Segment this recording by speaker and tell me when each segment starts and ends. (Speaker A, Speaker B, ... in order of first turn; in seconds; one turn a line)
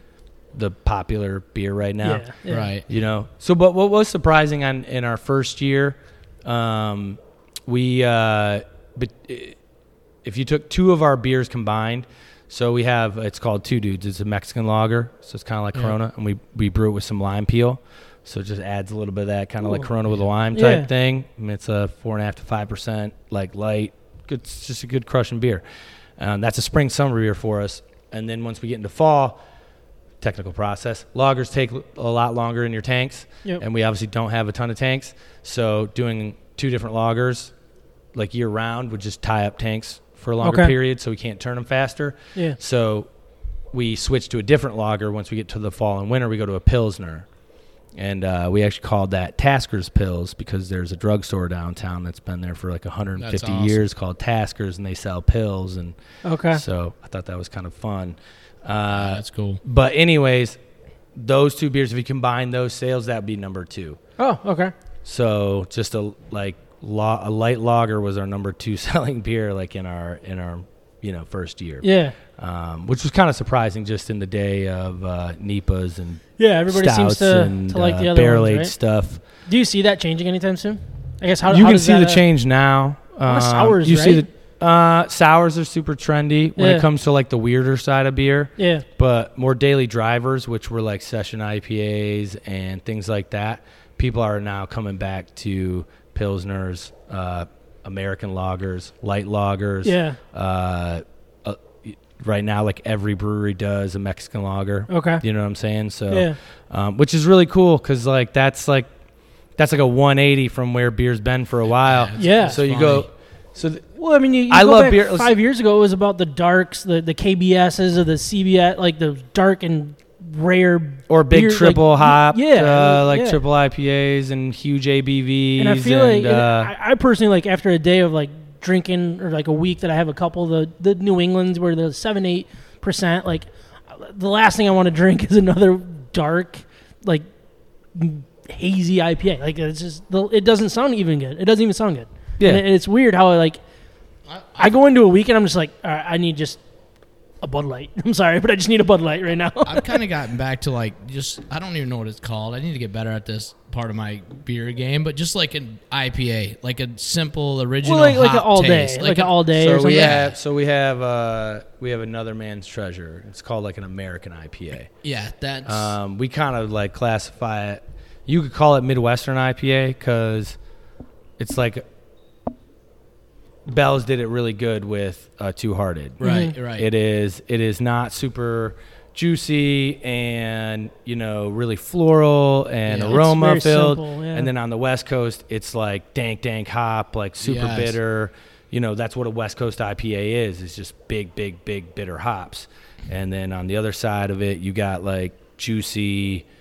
Speaker A: 0.5-9.6
Speaker B: 2.0-2.7
Speaker C: 2.5-2.9
Speaker A: 10.2-25.6
Speaker B: 20.5-20.9
Speaker A: 26.2-29.4
Speaker A: 30.2-37.5
Speaker A: 38.1-43.1
Speaker B: 40.4-40.7
Speaker A: 43.7-47.3
Speaker A: 48.0-56.0
Speaker C: 53.2-53.9
Speaker B: 56.2-56.6
Speaker A: 56.5-60.6
Speaker C: 58.9-59.6
Speaker A: 61.1-64.0
Speaker B: 64.2-64.7
Speaker A: 65.0-79.2
Speaker B: 71.8-72.1
Speaker B: 76.4-78.7
Speaker B: 79.5-82.2
Speaker A: 81.5-108.9
Speaker B: 83.2-84.2
Speaker B: 86.6-86.8
Speaker B: 88.6-88.8
Speaker B: 99.8-100.2
Speaker B: 104.9-105.2
Speaker B: 106.1-106.4
Speaker A: 109.6-113.8
Speaker C: 111.8-113.0
Speaker B: 112.2-112.6
Speaker B: 114.0-123.4
Speaker A: 114.5-115.3
Speaker A: 121.1-126.7
Speaker B: 125.6-137.2
Speaker B: 137.9-143.6
Speaker A: 142.4-142.6
Speaker C: 144.2-144.7
Speaker B: 144.6-146.6
Speaker B: 147.4-150.0
Speaker C: 149.7-160.4
Speaker B: 157.8-160.2
Speaker A: 159.5-164.9
Speaker C: 165.0-165.9
Speaker A: 165.7-170.6
Speaker A: 171.4-171.8
Speaker A: 173.7-176.2
Speaker B: 176.2-176.5
Speaker C: 176.2-176.9
Speaker A: 176.7-196.4
Speaker C: 182.8-183.2
Speaker B: 183.1-184.5
Speaker C: 187.4-188.0